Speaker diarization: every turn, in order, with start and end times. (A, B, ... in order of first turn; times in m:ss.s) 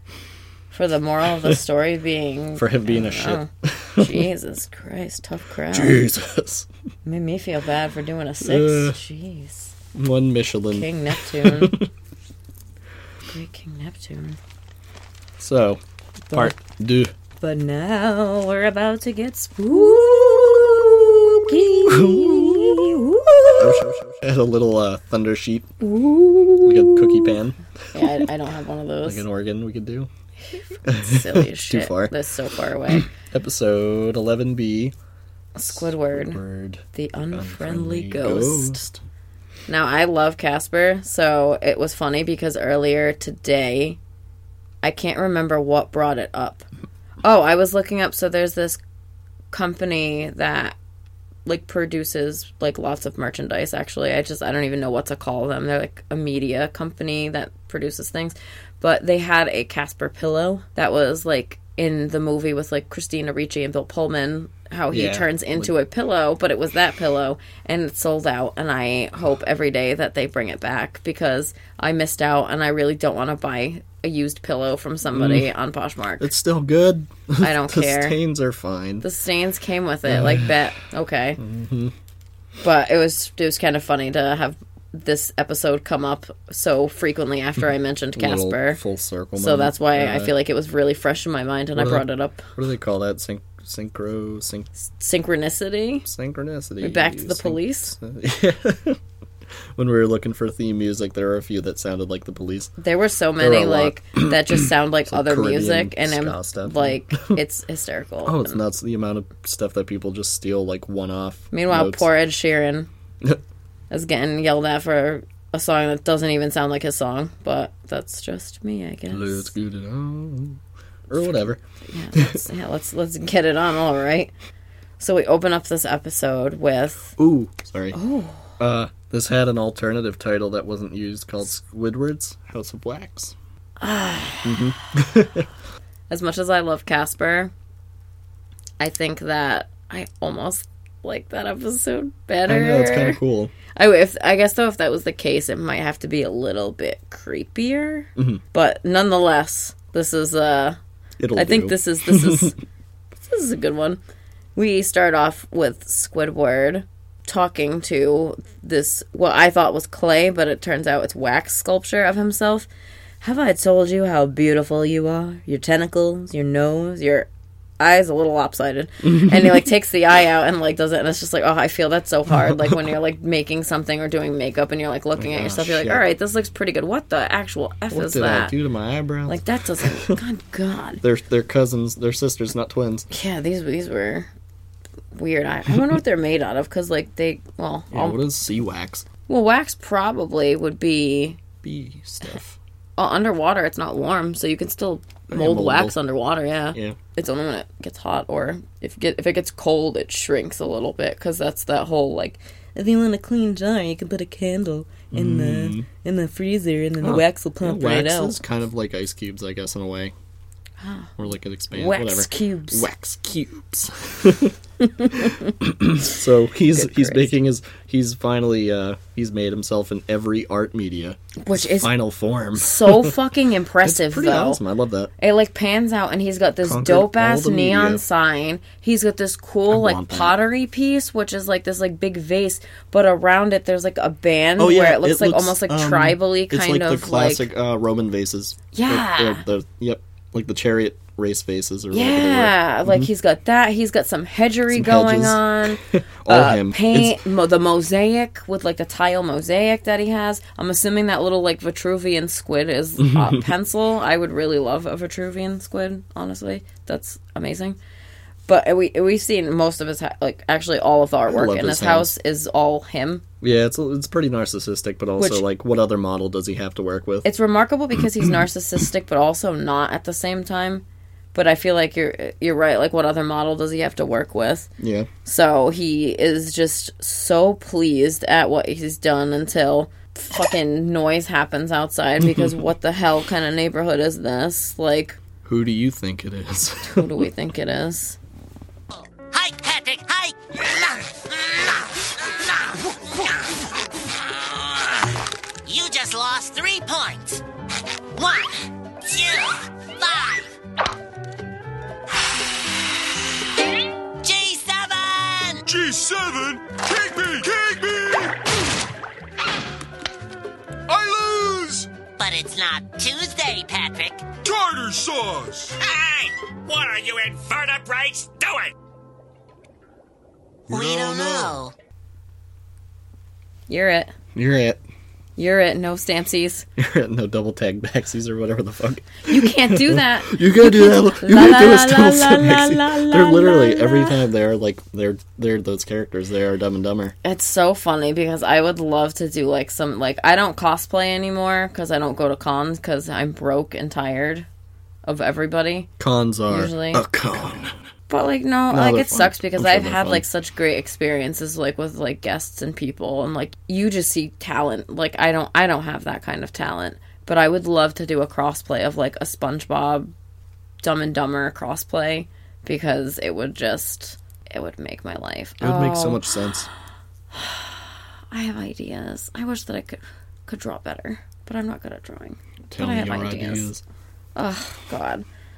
0:00.7-0:06.0 A
0:02.6-0:04.3 B
0:05.7-0:06.7 B
0:07.0-0:09.7 A
0:08.4-0:09.0 B
0:10.0-0:11.9 B
0:10.7-0:11.8 A
0:13.3-0:14.4 A
0:15.4-0:15.8 B
0:16.3-0:16.6 A
0:16.3-0:17.1 B
0:17.4-0:24.0 A
0:19.8-0:23.0 B
0:23.6-0:25.7 B
0:25.8-0:27.4 A
0:26.6-0:28.3 B
0:27.9-0:29.2 A
0:29.0-0:30.1 B
0:30.5-0:33.1 A
0:30.8-0:32.1 B
0:32.9-0:35.0 B
0:35.6-0:36.4 A
0:35.6-0:39.0 B
0:36.9-0:38.8 A
0:39.7-0:44.0 A
0:44.8-0:46.7 A
0:47.2-0:48.8 A
0:49.5-0:50.8 A
0:51.4-1:16.3 A
1:04.9-1:05.7 B
1:15.1-1:15.5 B
1:16.2-1:19.1 B
1:17.4-1:18.2 A
1:19.0-1:21.4 A
1:20.1-1:20.5 B
1:21.4-1:21.9 B
1:22.6-1:28.8 A
1:28.2-1:30.3 B
1:29.4-1:32.5 A
1:31.7-1:34.7 B
1:34.8-1:36.1 A
1:36.1-1:39.0 B
1:36.8-1:38.0 A
1:39.8-1:42.7 B
1:42.8-1:48.6 A
1:43.4-1:47.4 B
1:48.2-1:52.1 B
1:51.5-1:52.9 A
1:53.9-1:59.5 A
1:59.1-2:01.6 B
2:01.9-2:04.3 A
2:02.1-2:02.4 B
2:05.0-2:07.1 A
2:07.2-2:08.0 B
2:07.9-2:08.6 A
2:08.6-2:13.4 B
2:13.8-2:14.7 A
2:14.4-2:15.5 B
2:16.1-2:17.5 A
2:18.8-2:23.2 A
2:22.5-2:23.5 B
2:23.7-2:30.8 A
2:28.2-2:28.4 B
2:31.2-2:32.5 B
2:31.4-2:32.6 A
2:33.2-2:34.0 A
2:34.6-2:42.7 A
2:43.2-2:47.3 A
2:47.8-2:58.6 A
2:49.1-2:49.5 B
2:52.3-2:52.8 B
2:55.2-2:56.0 B
2:57.9-3:00.2 B
2:59.3-3:01.0 A
3:01.0-3:03.1 B
3:03.1-3:04.3 A
3:05.1-3:08.2 A
3:07.9-3:09.1 B
3:09.3-3:11.4 A
3:11.6-3:12.6 B
3:13.0-3:28.4 A
3:15.3-3:16.0 B
3:25.1-3:25.9 B
3:27.0-3:30.1 B
3:30.8-3:31.1 A
3:31.2-3:34.6 B
3:31.7-3:32.9 A
3:35.0-3:35.5 A
3:35.1-3:43.1 B
3:36.7-3:37.4 A
3:41.4-3:41.9 A
3:42.6-3:44.6 A
3:43.8-3:45.1 B
3:45.2-3:57.5 A
3:46.6-3:48.0 B
3:49.7-3:50.3 B
3:54.6-4:03.1 B
3:58.7-3:59.4 A
4:01.9-4:17.8 A
4:04.7-4:07.2 B
4:13.0-4:13.4 B
4:18.5-4:23.2 A
4:21.3-4:22.1 B
4:23.4-4:27.3 B
4:25.2-4:25.4 A
4:27.2-4:34.7 A
4:34.8-4:35.1 B
4:35.3-4:45.2 A
4:42.2-4:42.6 B
4:45.4-4:47.3 B
4:46.9-4:48.2 A
4:48.9-4:55.2 C
4:55.7-4:57.4 C
4:58.1-5:00.5 C
5:04.2-5:05.7 C
5:05.6-5:08.4 D
5:10.9-5:11.9 D
5:12.2-5:14.2 C
5:14.4-5:15.8 D
5:15.8-5:18.7 E
5:20.7-5:21.6 D
5:20.7-5:21.7 C
5:23.7-5:24.1 A
5:24.4-5:24.8 B
5:25.4-5:26.7 A
5:26.8-5:37.2 B
5:29.3-5:34.2 A
5:37.2-5:44.5 A
5:45.1-5:45.9 A
5:46.0-5:47.8 B
5:46.5-5:47.0 A
5:48.1-6:00.1 A
5:48.7-5:50.2 B
6:00.8-6:06.2 A
6:05.6-6:06.7 B
6:07.3-6:13.7 A
6:12.7-6:13.8 B
6:14.4-6:15.2 A